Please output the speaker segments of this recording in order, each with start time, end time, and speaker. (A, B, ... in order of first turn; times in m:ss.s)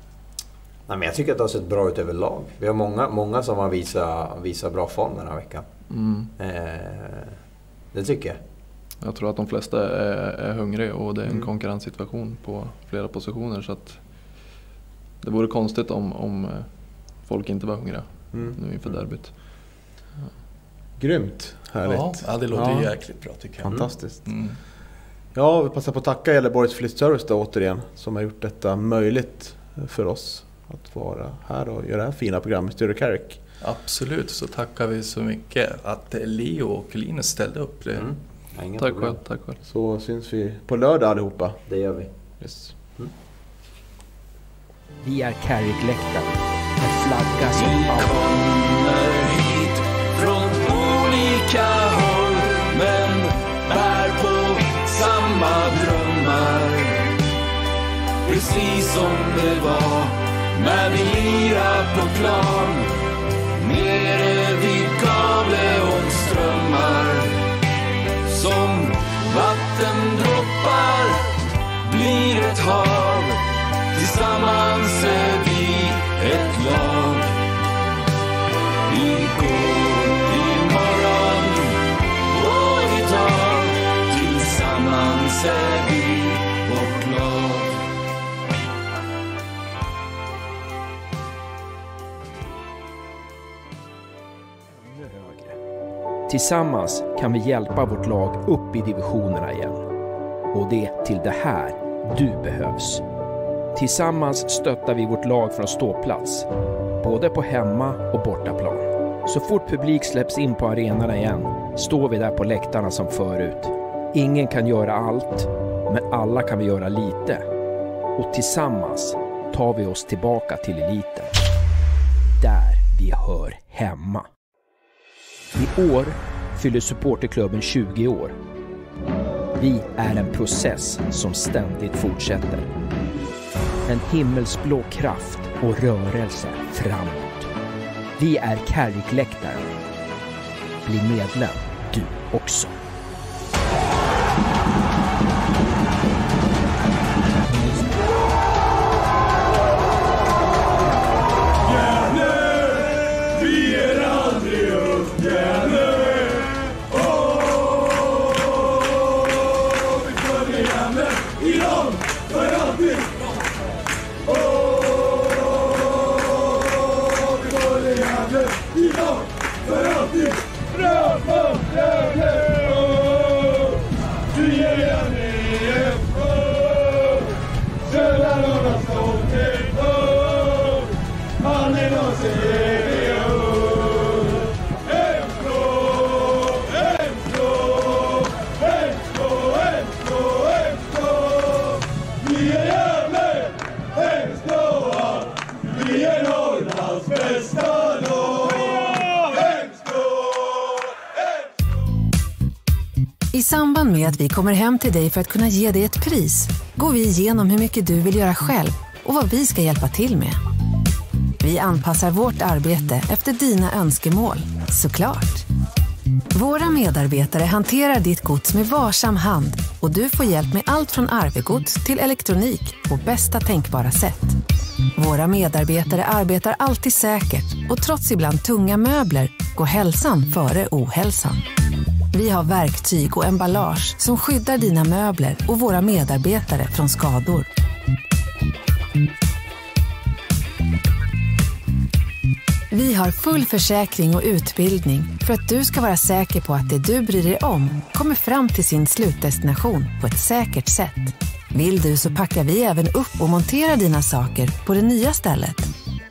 0:00.9-0:05.7 A
0:05.9-0:06.3 B
0:06.4-0:07.4 A
0:07.9-0:08.4 A
0:09.0-0:14.4 B
0:15.2-0:19.8 B
0:18.3-0:19.0 C
0:21.0-0:22.9 C
0:21.8-0:24.6 D
0:23.6-0:24.2 C
0:23.7-0:23.9 A
0:25.3-0:33.4 C
0:33.6-0:38.1 D
0:38.0-0:39.2 A
0:38.8-0:39.6 B
0:39.6-0:41.6 C
0:41.7-0:42.1 A
0:42.4-0:42.8 C
0:45.0-0:48.2 E
0:47.5-0:57.1 F
0:58.2-1:03.0 F
1:03.6-1:07.4 F
1:08.2-1:17.4 F
1:18.9-1:27.8 F
1:34.8-1:35.6 E
1:36.3-1:39.9 E
1:40.5-1:43.0 E
1:43.8-1:46.5 E
1:47.0-1:57.5 E
1:58.2-2:01.3 E
2:02.4-2:04.3 E
2:05.5-2:08.4 E
2:09.6-2:12.7 E
2:13.9-2:17.5 E
2:18.2-2:19.7 E
2:20.8-2:22.8 E
3:23.3-3:30.4 G
3:31.4-3:35.5 G
3:36.3-3:44.4 G
3:45.0-3:51.5 G
3:52.1-3:57.5 G
4:02.7-4:15.7 G